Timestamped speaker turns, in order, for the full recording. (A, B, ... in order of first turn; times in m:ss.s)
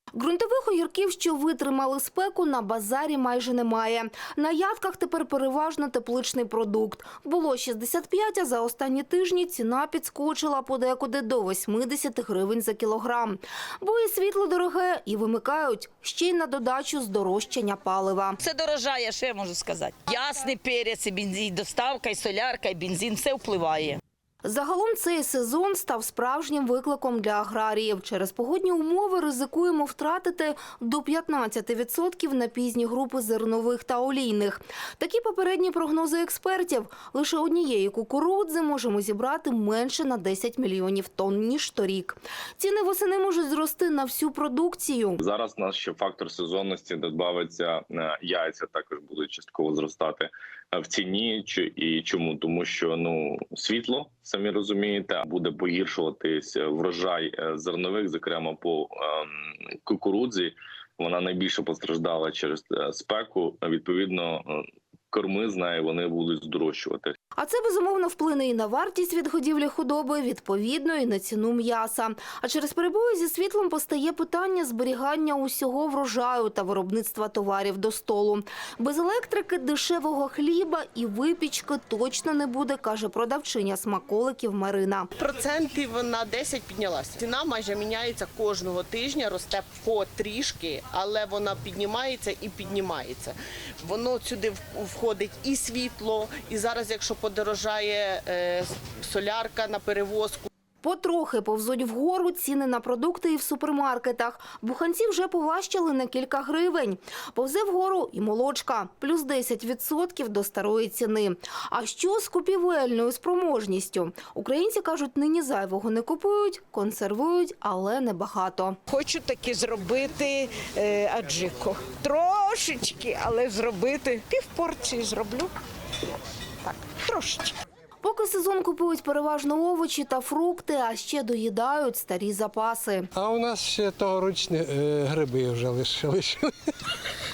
0:00.1-0:18.4 A
0:18.4-0:24.0 B
0:24.4-0:45.2 A
0:45.2-1:07.1 C
1:07.4-1:25.1 A
1:25.2-1:40.5 D
1:40.8-1:58.8 A
1:58.9-2:05.5 E
2:06.6-2:07.5 E
2:08.0-2:13.1 A
2:13.1-2:16.5 F